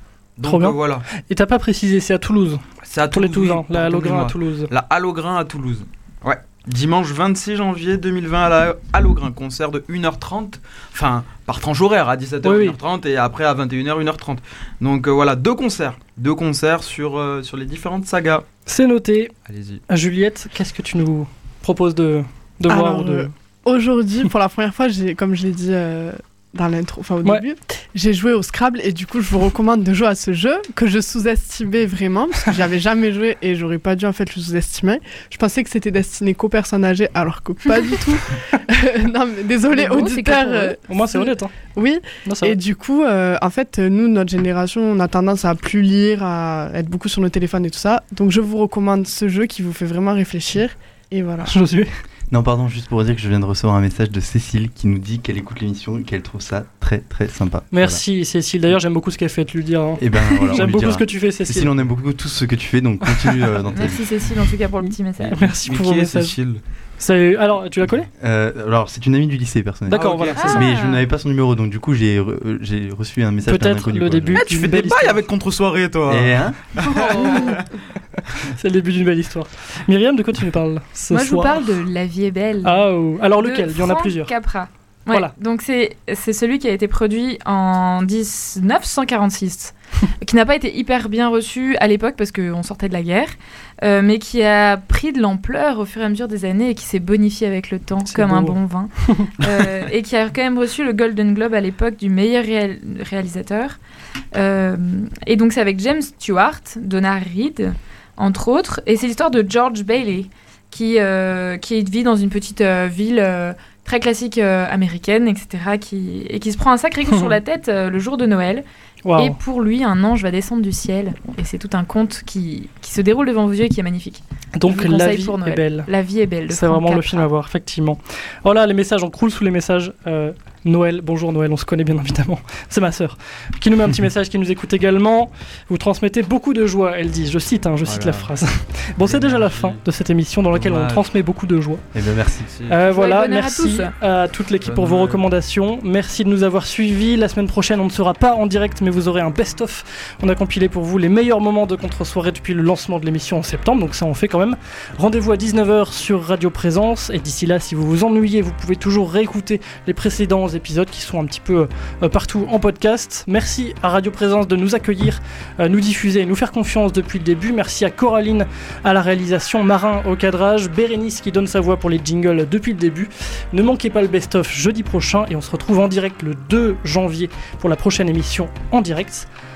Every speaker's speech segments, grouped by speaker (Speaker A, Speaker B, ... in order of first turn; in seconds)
Speaker A: 0.4-1.1, 2.9-18.4, 19.5-19.8, 65.2-66.6, 69.9-70.7, 74.3-77.7, 137.8-138.3, 139.0-139.8, 140.5-141.1, 142.5-142.8, 144.6-145.2
Speaker B: 0.5-4.7, 12.4-12.8, 18.7-19.3, 19.9-23.3, 40.9-41.5, 42.2-42.6, 51.5-51.9, 57.7-61.7, 64.8-66.3, 67.0-68.1, 69.9-70.6, 73.5-75.2, 78.5-81.5, 82.6-84.3, 98.1-99.5, 119.0-119.4, 124.5-125.9, 126.5-141.8, 142.7-179.3
Speaker C: 22.7-51.5
Speaker D: 39.7-40.8, 63.7-65.4, 70.4-71.0, 76.8-77.6, 81.1-103.8, 104.3-118.7, 119.2-127.3, 142.9-143.9
Speaker E: 52.3-58.0, 60.0-64.1, 68.2-74.5, 76.1-76.6, 141.9-142.5